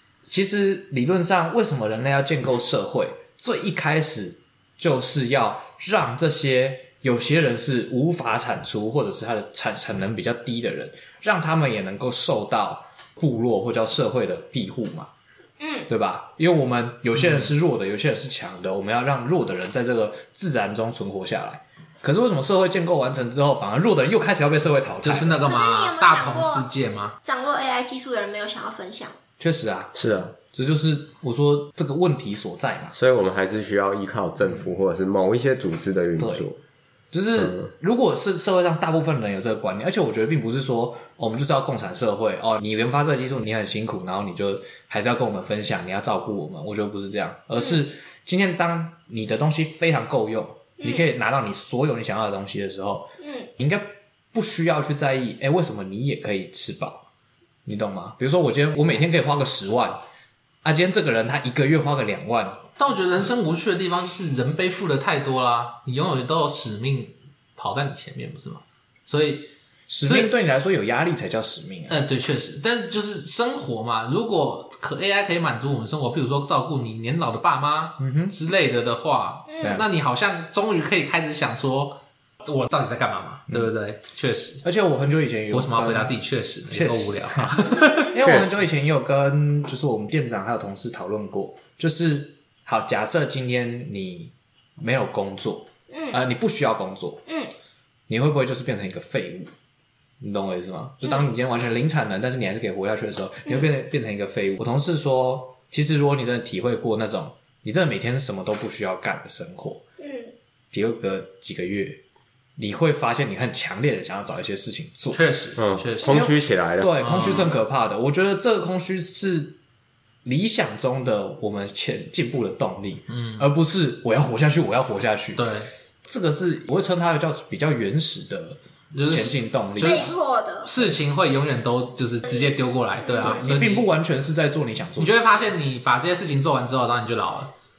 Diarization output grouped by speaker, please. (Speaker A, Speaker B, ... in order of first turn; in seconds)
Speaker A: 0.2-15.1, 15.9-25.4, 29.4-33.0, 36.2-36.5, 37.1-57.0, 57.6-60.0, 60.6-62.7, 69.9-72.0, 78.0-78.3, 79.6-79.8, 84.6-86.2, 86.7-97.2, 98.1-99.5, 100.2-109.8, 110.7-112.0, 112.6-115.2, 116.0-119.6, 120.2-125.4, 126.0-130.1, 133.2-135.4
Speaker B: 15.6-15.9, 25.4-26.7, 27.2-29.2, 50.8-51.0, 53.2-53.5, 79.5-79.8, 95.9-96.2, 97.3-97.5, 110.0-110.3, 129.8-130.7, 133.0-133.4
Speaker C: 17.1-17.5, 25.0-27.1, 62.8-69.5, 70.0-70.3, 71.9-84.6, 85.5-88.1, 115.1-116.2, 117.0-117.5, 123.1-123.5, 125.3-125.7, 128.9-133.9, 135.0-137.5
Speaker D: 29.9-30.3, 32.9-36.6, 37.4-37.7, 88.2-88.5, 115.6-117.5